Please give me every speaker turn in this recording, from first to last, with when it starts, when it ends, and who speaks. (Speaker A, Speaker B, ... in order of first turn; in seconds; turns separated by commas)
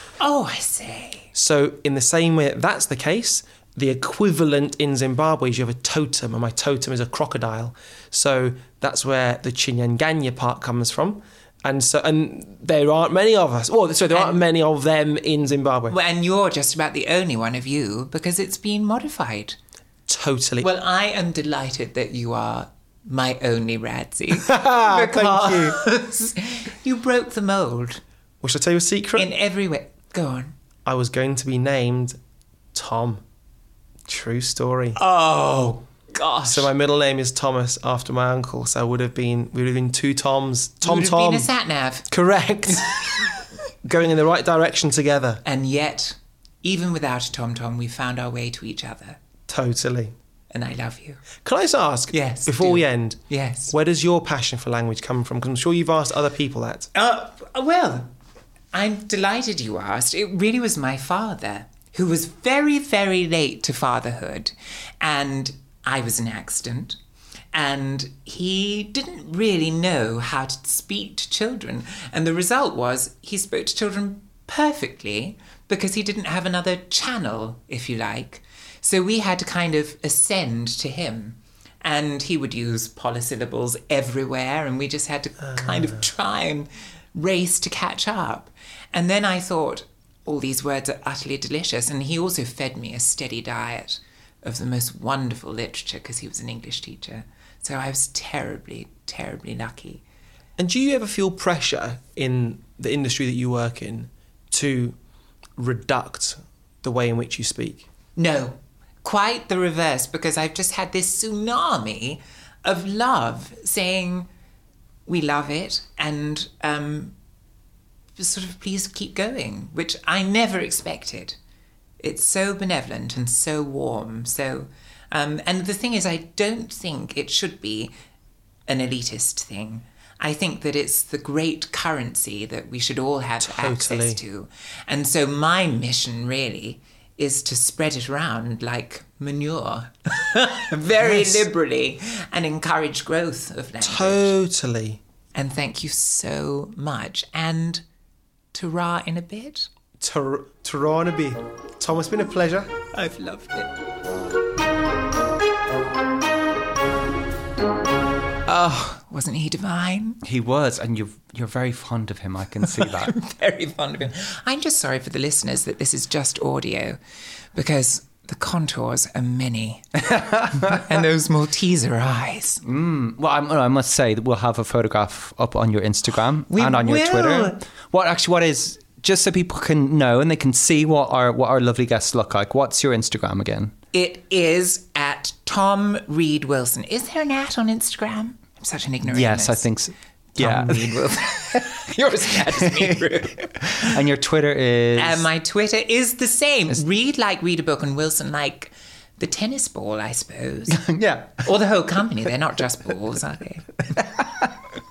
Speaker A: 0.2-1.3, Speaker B: 1.3-15.9, Speaker A: 14.1-14.4, Speaker A: 15.9-19.6, Speaker B: 20.1-20.7, Speaker A: 20.6-28.0, Speaker B: 24.3-25.8, Speaker B: 28.4-29.3, Speaker A: 29.1-30.5, Speaker B: 30.8-32.2, Speaker B: 32.7-33.2, Speaker B: 34.1-35.0, Speaker A: 35.0-36.7, Speaker B: 36.4-41.5, Speaker A: 40.8-42.1, Speaker B: 42.1-43.3, Speaker A: 42.7-43.3, Speaker B: 43.8-45.4, Speaker A: 45.4-49.2, Speaker B: 49.5-50.1, Speaker A: 50.5-51.2, Speaker B: 51.4-56.9, Speaker A: 52.1-53.7, Speaker A: 56.9-58.1, Speaker A: 58.7-67.0, Speaker A: 67.5-100.0, Speaker B: 85.4-86.0, Speaker B: 100.6-105.0, Speaker B: 105.6-107.9, Speaker A: 108.2-114.3, Speaker A: 115.0-117.1, Speaker A: 118.2-121.4, Speaker A: 122.0-127.9, Speaker A: 128.7-144.3, Speaker B: 133.4-134.2, Speaker B: 140.9-141.4, Speaker B: 143.8-145.0, Speaker A: 145.3-147.8, Speaker A: 148.5-149.7, Speaker B: 150.0-152.7, Speaker A: 152.9-153.7, Speaker A: 158.5-160.2, Speaker C: 160.2-163.1, Speaker A: 162.7-167.0, Speaker A: 167.5-170.0, Speaker A: 170.6-172.6, Speaker C: 172.6-183.7, Speaker A: 176.5-177.6, Speaker A: 183.9-189.7, Speaker C: 189.0-191.8, Speaker A: 190.3-193.8, Speaker C: 192.4-195.3, Speaker A: 194.9-200.8, Speaker C: 200.7-201.5, Speaker A: 201.4-203.7, Speaker C: 203.9-204.5